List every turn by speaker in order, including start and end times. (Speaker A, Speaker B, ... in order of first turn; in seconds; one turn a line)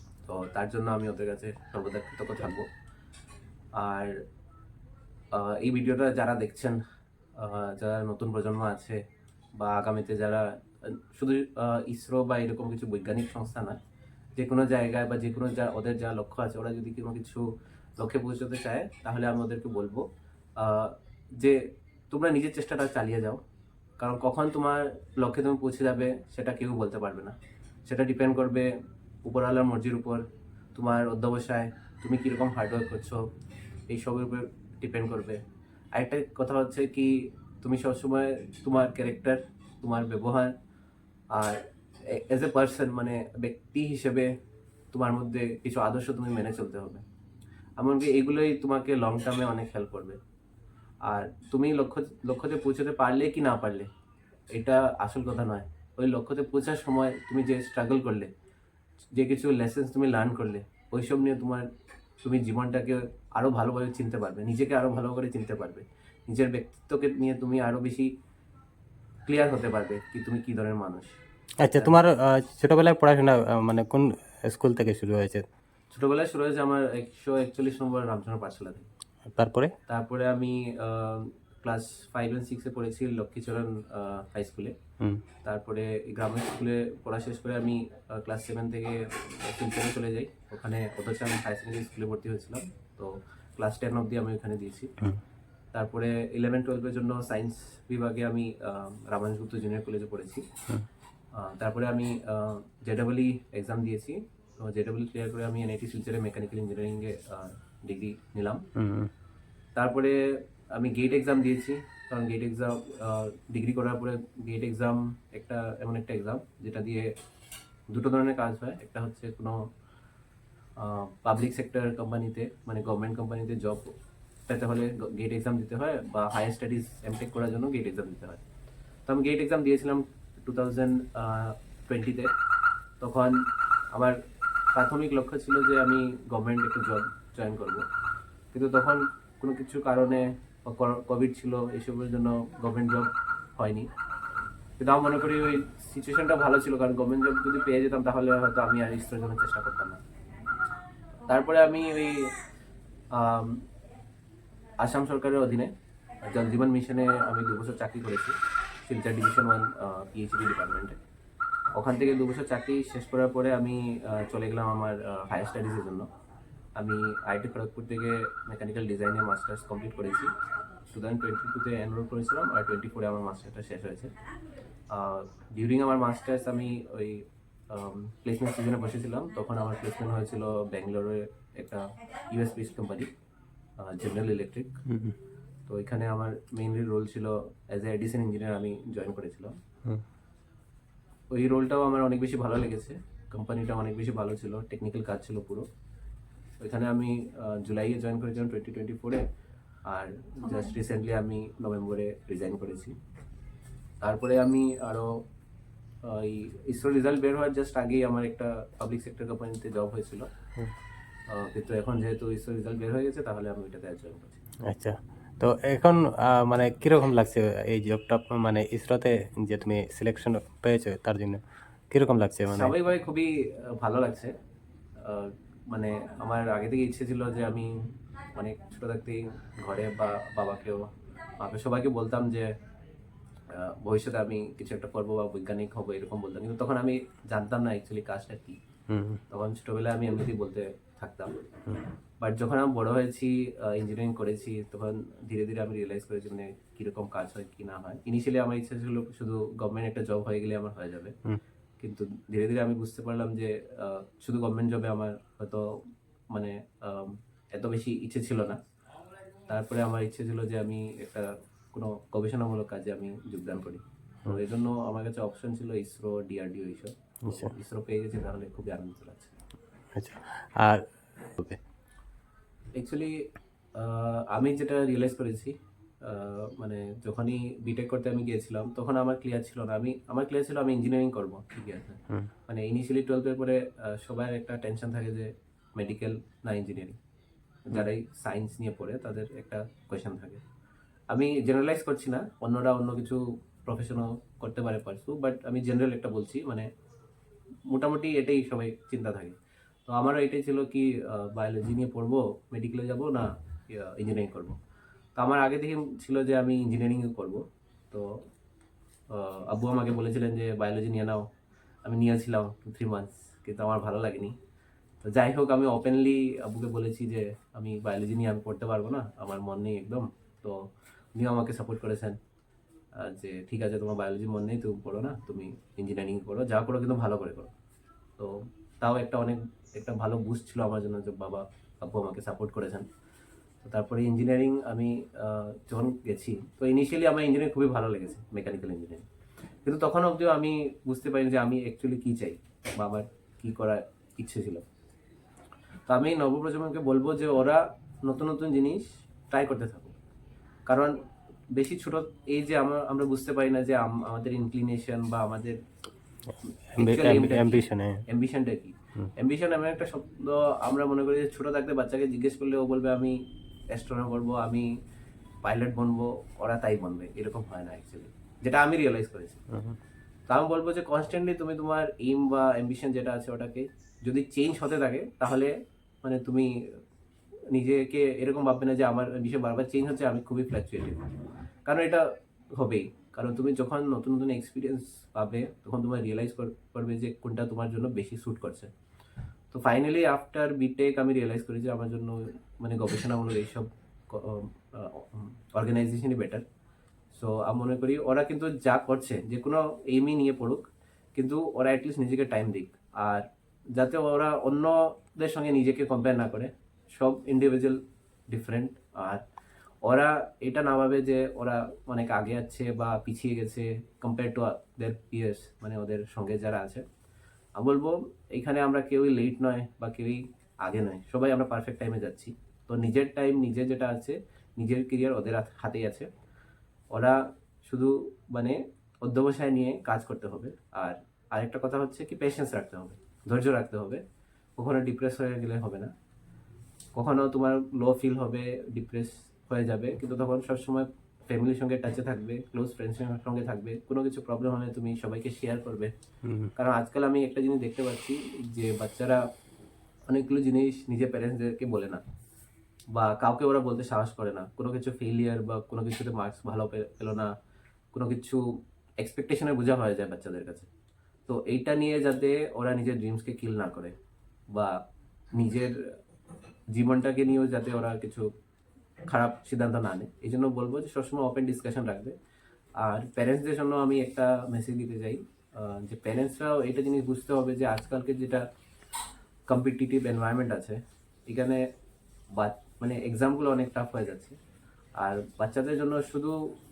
Speaker A: 0.2-2.7
Speaker A: 3.8-4.2
Speaker A: 5.3-6.8
Speaker A: 7.4-9.0
Speaker A: 9.6-13.8
Speaker A: 14.4-20.1
Speaker A: 20.6-23.4
Speaker A: 24.0-28.7
Speaker A: 29.3-30.2
Speaker A: 30.8-33.2
Speaker A: 33.9-35.4
Speaker A: 35.9-40.5
Speaker A: 41.3-44.3
Speaker A: 44.9-47.0
Speaker A: 47.8-50.2
Speaker A: 51.0-53.9
Speaker A: 54.5-58.3
Speaker A: 59.1-61.7
Speaker A: 62.2-68.1
Speaker A: 69.3-71.2
Speaker B: 71.6-75.5
Speaker A: 75.9-78.9
Speaker B: 79.2-79.7
Speaker A: 79.9-84.8
Speaker A: 85.4-94.9
Speaker A: 95.7-100.5
Speaker A: 101.4-108.6
Speaker B: 108.8-109.1
Speaker A: 109.8-110.2
Speaker A: 110.8-117.1
Speaker A: 117.9-119.6
Speaker A: 120.8-123.9
Speaker A: 124.5-128.4
Speaker A: 129.1-132.3
Speaker A: 133.0-134.2
Speaker A: 134.7-137.8
Speaker A: 138.5-143.9
Speaker A: 144.8-150.0
Speaker A: 151.3-152.3
Speaker A: 153.1-153.6
Speaker A: 154.8-155.7
Speaker A: 156.2-161.0
Speaker A: 161.8-166.1
Speaker A: 166.8-170.3
Speaker A: 170.9-174.1
Speaker A: 174.9-183.1
Speaker A: 183.8-184.8
Speaker B: 184.9-185.2
Speaker A: 185.7-189.6
Speaker A: 191.3-195.7
Speaker A: 196.6-199.2
Speaker A: 199.9-203.0
Speaker A: 204.0-205.2
Speaker A: 206.0-210.3
Speaker A: 211.3-214.4
Speaker B: 214.7-222.7
Speaker A: 222.5-224.3
Speaker A: 225.0-227.8
Speaker A: 228.3-232.5
Speaker A: 233.5-238.6
Speaker B: 238.9-239.2
Speaker A: 239.3-241.3
Speaker A: 242.2-251.2
Speaker A: 251.8-255.7
Speaker A: 256.3-258.6
Speaker A: 259.5-269.4
Speaker B: 267.3-267.5
Speaker B: 269.9-271.6
Speaker A: 272.8-273.1
Speaker A: 273.8-287.0
Speaker A: 287.7-290.4
Speaker A: 291.1-296.7
Speaker A: 297.7-304.6
Speaker A: 305.2-308.2
Speaker A: 309.1-311.2
Speaker A: 311.9-314.4
Speaker A: 315.0-320.6
Speaker A: 321.2-322.2
Speaker A: 323.0-327.5
Speaker A: 328.2-332.9
Speaker A: 333.6-339.1
Speaker A: 339.6-344.6
Speaker A: 345.9-349.9
Speaker A: 350.7-351.0
Speaker A: 351.5-355.6
Speaker B: 356.7-358.0
Speaker A: 356.8-364.7
Speaker A: 365.4-369.4
Speaker B: 369.5-369.8
Speaker A: 370.3-376.8
Speaker A: 377.5-381.0
Speaker A: 381.7-388.7
Speaker A: 389.5-396.4
Speaker A: 397.1-400.6
Speaker A: 401.1-407.8
Speaker A: 408.3-409.2
Speaker A: 409.9-416.8
Speaker A: 417.6-426.1
Speaker A: 426.9-434.0
Speaker A: 434.6-435.9
Speaker A: 436.9-445.9
Speaker B: 446.2-446.5
Speaker A: 446.6-449.2
Speaker A: 450.1-452.0
Speaker A: 452.9-457.3
Speaker A: 457.9-458.4
Speaker A: 459.0-460.7
Speaker A: 461.3-463.9
Speaker A: 465.4-465.7
Speaker A: 466.7-468.3
Speaker A: 469.1-472.2
Speaker A: 472.8-478.4
Speaker A: 479.5-481.6
Speaker A: 482.4-484.4
Speaker A: 485.0-486.4